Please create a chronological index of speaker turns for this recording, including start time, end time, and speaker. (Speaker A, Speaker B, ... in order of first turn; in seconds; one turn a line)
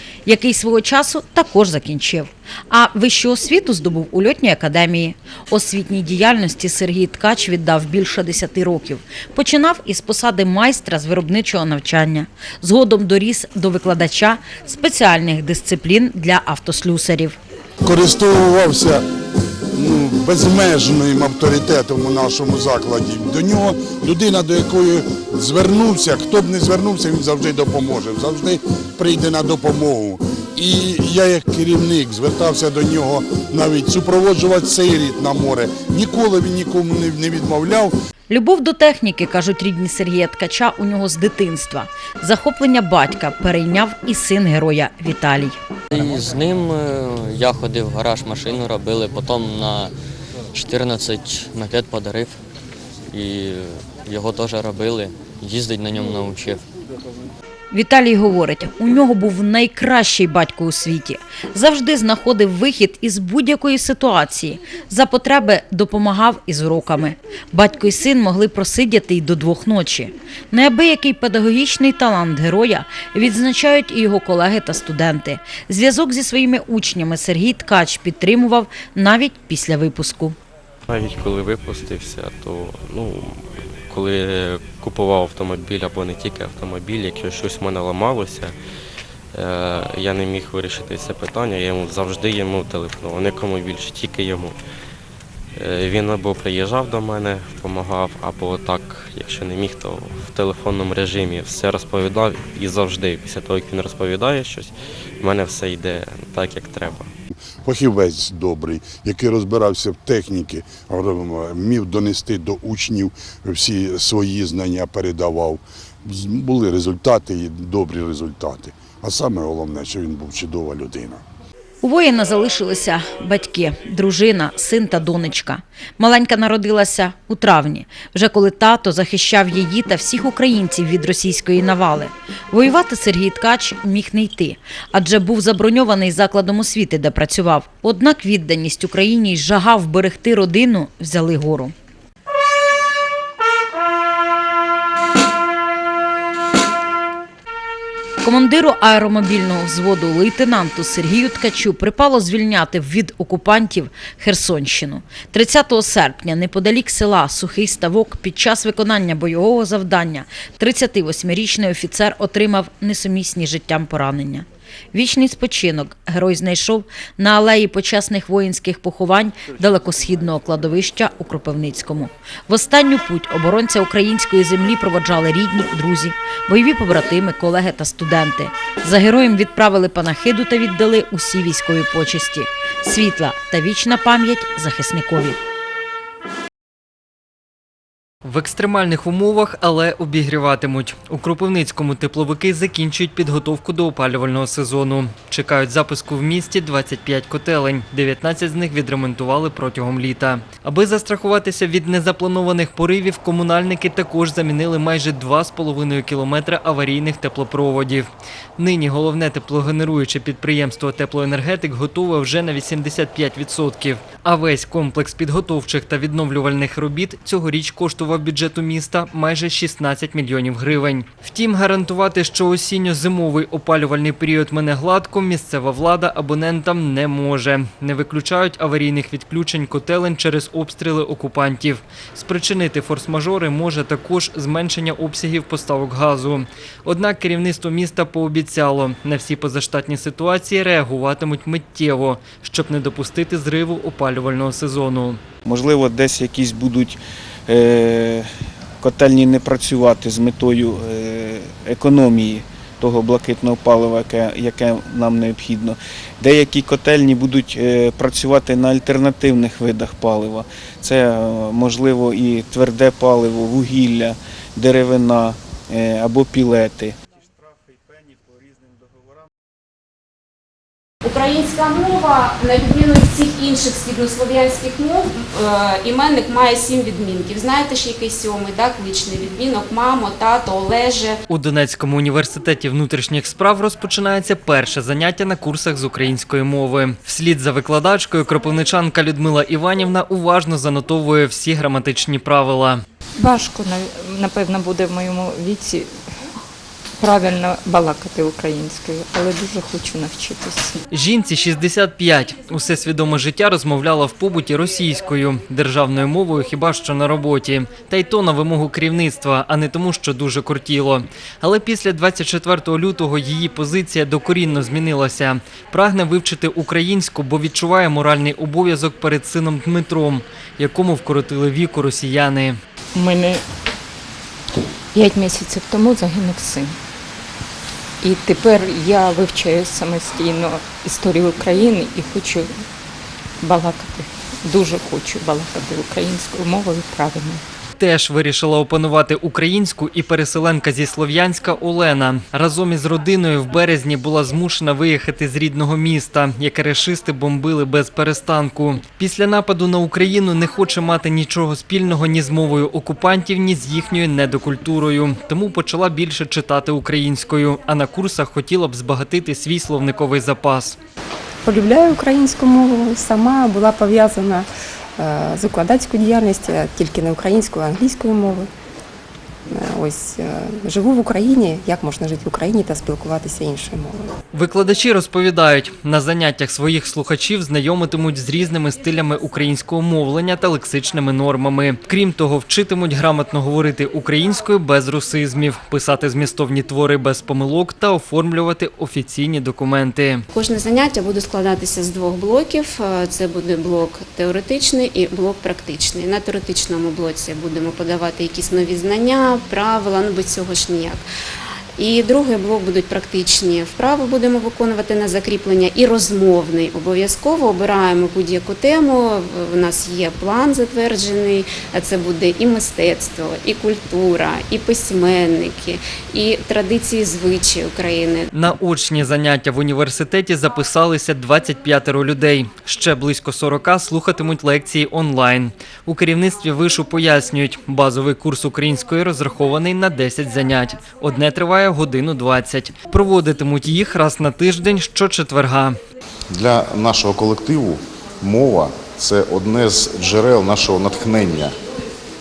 Speaker A: 0.2-17.4
Speaker B: 17.9-19.0
Speaker B: 19.8-37.9
Speaker A: 38.3-45.6
Speaker C: 45.9-49.9
Speaker C: 50.5-52.4
Speaker C: 53.1-56.6
Speaker A: 57.7-80.3
Speaker D: 80.9-88.5
Speaker D: 89.3-94.5
Speaker D: 95.5-107.1
Speaker B: 107.6-121.2
Speaker A: 121.8-141.7
Speaker A: 148.2-185.4
Speaker E: 188.2-245.2
Speaker F: 245.4-248.3
Speaker F: 248.8-266.9
Speaker G: 271.0-281.1
Speaker E: 281.3-292.8
Speaker H: 293.2-295.9
Speaker H: 297.0-300.8
Speaker E: 300.9-322.6
Speaker H: 322.9-323.4
Speaker H: 324.9-326.7
Speaker H: 328.0-332.5
Speaker H: 333.4-337.4
Speaker E: 337.8-360.8
Speaker I: 361.4-368.5
Speaker I: 369.5-374.1
Speaker E: 374.3-390.2
Speaker G: 390.3-401.0
Speaker G: 401.8-418.3
Speaker E: 418.3-435.8
Speaker J: 436.3-441.6